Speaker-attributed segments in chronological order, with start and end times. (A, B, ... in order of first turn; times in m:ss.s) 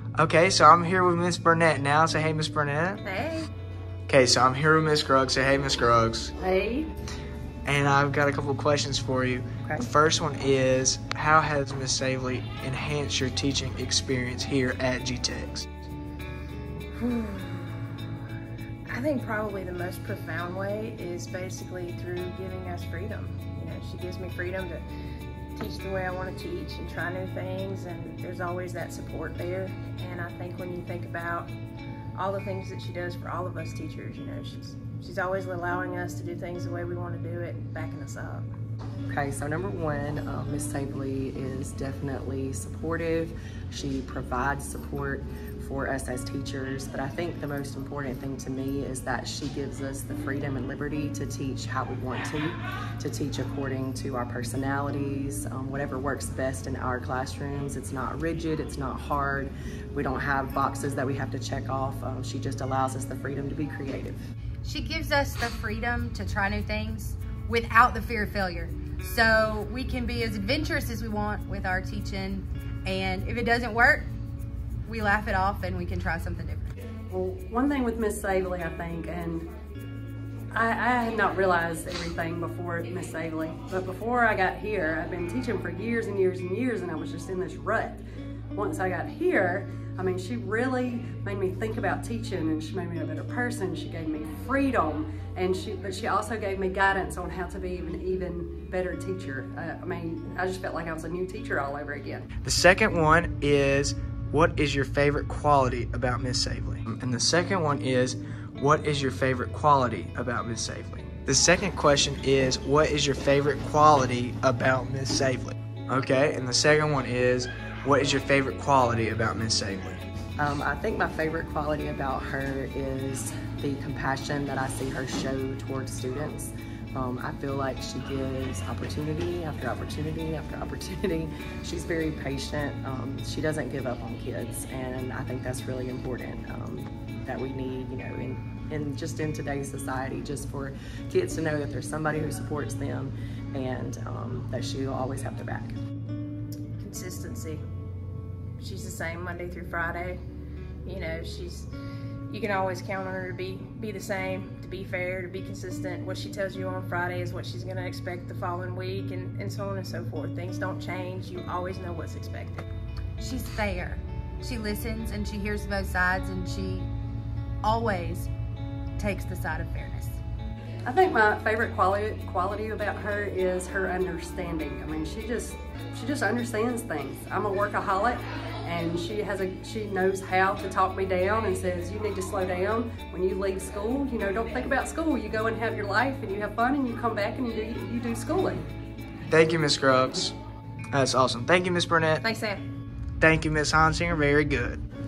0:00.2-0:03.0 A
0:03.0-0:03.5 B
0:04.1-0:06.3 A
0:06.4-0:06.9 B
0:07.6-0:15.6 A
0:17.0-0:17.9 B
0:18.9-0:24.8 B
0:25.5-0:31.5 B
0:32.1-0:38.5 B
0:39.1-1:04.2 C
1:04.6-1:14.1 D
1:14.8-1:16.7 D
1:17.1-1:19.5 E
1:20.5-1:28.0 E
1:28.5-1:42.2 E
1:42.4-2:00.0 A
2:00.4-2:25.8 C
2:26.8-2:27.6 B
2:28.6-2:30.2 B
2:30.8-2:31.7 B
2:32.3-2:42.6 B
2:43.2-2:46.9 D
2:47.6-2:48.3 D
2:49.0-2:50.2 D
2:50.8-3:08.6 E
3:09.3-3:10.3 A
3:10.9-3:12.2 A
3:12.2-3:12.6 B
3:13.2-3:14.8 A